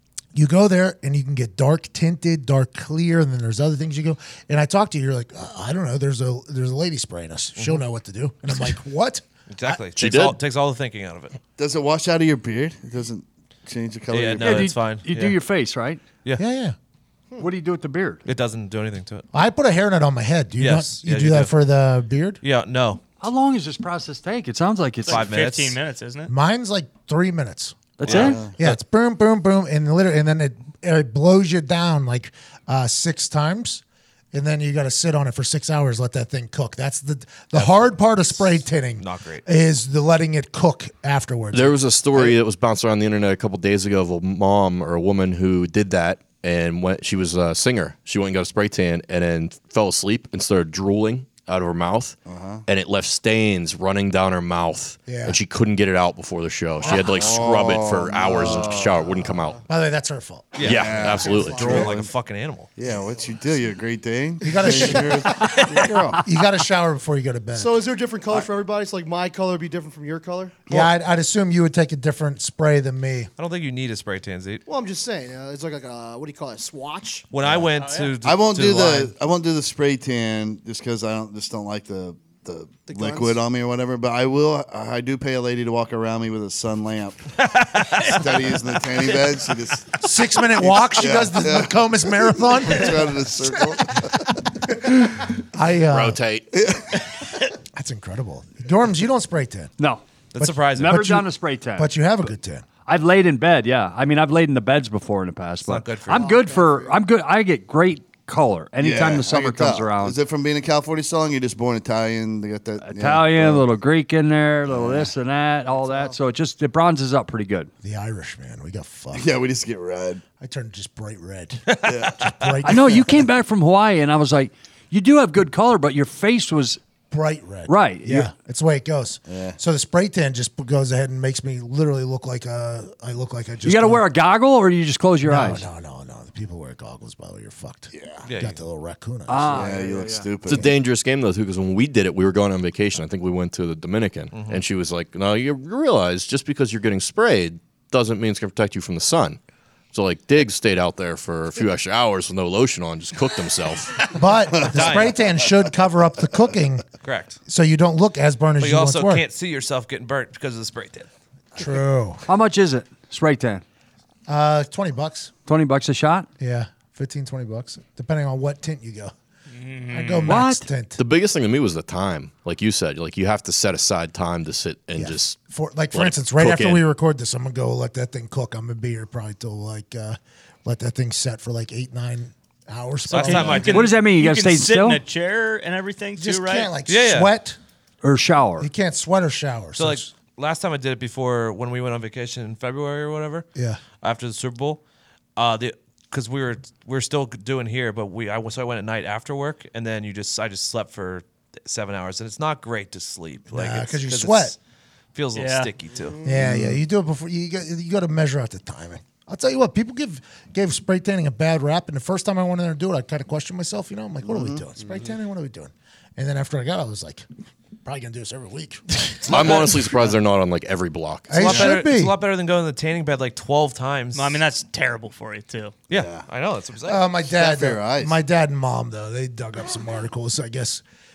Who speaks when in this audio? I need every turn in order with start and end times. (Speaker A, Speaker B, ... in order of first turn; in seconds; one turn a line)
Speaker A: 0.3-9.2
Speaker B: 7.6-7.8
Speaker B: 9.5-11.4
Speaker C: 9.9-10.4
Speaker D: 11.6-14.7
Speaker B: 14.1-15.4
Speaker E: 14.4-16.0
Speaker A: 16.4-16.8
Speaker E: 17.4-18.2
Speaker B: 18.2-19.2
Speaker A: 19.3-22.4
Speaker B: 20.6-21.5
Speaker B: 22.4-23.0
Speaker E: 23.2-25.3
Speaker F: 25.1-26.3
Speaker B: 25.1-25.8
Speaker A: 26.3-42.3
Speaker E: 28.0-28.5
Speaker B: 28.0-28.8
Speaker D: 28.1-28.5
Speaker B: 37.5-39.5
Speaker C: 41.5-59.6
Speaker D: 52.3-52.6
Speaker A: 55.1-55.4
Speaker D: 56.8-59.0
Speaker A: 59.7-60.6
Speaker B: 60.5-62.7
Speaker C: 60.6-61.9
Speaker D: 60.6-62.1
Speaker G: 61.1-62.0
Speaker D: 62.8-66.2
Speaker A: 64.4-65.6
Speaker A: 66.2-67.8
Speaker G: 67.5-70.7
Speaker A: 70.7-73.3
Speaker B: 73.4-74.6
Speaker G: 74.7-77.3
Speaker B: 77.3-79.1
Speaker F: 77.8-78.1
Speaker D: 78.2-87.3
Speaker G: 82.9-83.4
Speaker B: 87.5-88.2
Speaker D: 88.0-94.3
Speaker A: 90.0-94.0
Speaker A: 94.9-96.2
Speaker C: 95.9-96.6
Speaker D: 96.5-96.9
Speaker A: 97.7-99.7
Speaker E: 99.8-100.0
Speaker B: 100.3-101.1
Speaker A: 100.4-101.3
Speaker E: 100.6-101.9
Speaker A: 101.8-102.7
Speaker E: 102.8-110.2
Speaker B: 105.6-106.4
Speaker G: 106.1-107.0
Speaker D: 108.8-113.7
Speaker E: 112.8-117.7
Speaker D: 114.7-115.1
Speaker G: 115.8-116.2
Speaker A: 117.8-119.3
Speaker D: 119.1-120.2
Speaker A: 120.4-123.1
Speaker D: 121.8-122.2
Speaker E: 122.6-126.8
Speaker A: 127.1-134.1
Speaker E: 127.7-128.3
Speaker D: 129.3-129.6
Speaker E: 133.6-135.7
Speaker A: 135.2-139.8
Speaker D: 137.9-138.2
Speaker B: 138.3-138.6
Speaker E: 139.3-140.3
Speaker D: 139.5-140.7
Speaker C: 140.5-149.4
Speaker B: 144.3-144.6
Speaker C: 149.9-154.1
Speaker A: 154.1-156.9
Speaker B: 154.7-155.2
Speaker B: 157.0-157.4
Speaker A: 157.5-159.2
Speaker B: 158.6-161.1
Speaker A: 161.6-162.2
Speaker E: 162.3-163.6
Speaker A: 164.3-165.3
Speaker E: 165.5-166.3
Speaker A: 166.4-169.1
Speaker F: 169.5-170.4
Speaker A: 169.9-171.0
Speaker E: 170.3-170.7
Speaker C: 171.0-175.4
Speaker A: 174.9-183.8
Speaker C: 175.9-176.8
Speaker B: 183.1-183.9
Speaker F: 183.1-186.7
Speaker E: 183.7-185.0
Speaker A: 186.2-187.6
Speaker B: 186.9-187.3
Speaker E: 188.0-188.7
Speaker A: 188.6-190.1
Speaker B: 189.8-193.5
Speaker A: 193.6-193.8
Speaker B: 194.0-194.8
Speaker B: 195.4-204.6
Speaker A: 203.5-204.6
Speaker B: 205.2-206.2
Speaker F: 205.3-205.7
Speaker A: 206.2-217.3
Speaker D: 206.3-206.8
Speaker D: 214.3-214.6
Speaker A: 217.8-220.1
Speaker C: 219.3-221.7
Speaker A: 221.3-222.2
Speaker B: 221.4-224.4
Speaker F: 224.1-225.8
Speaker B: 225.9-227.0
Speaker D: 225.9-226.2
Speaker A: 226.9-230.8
Speaker D: 227.3-228.2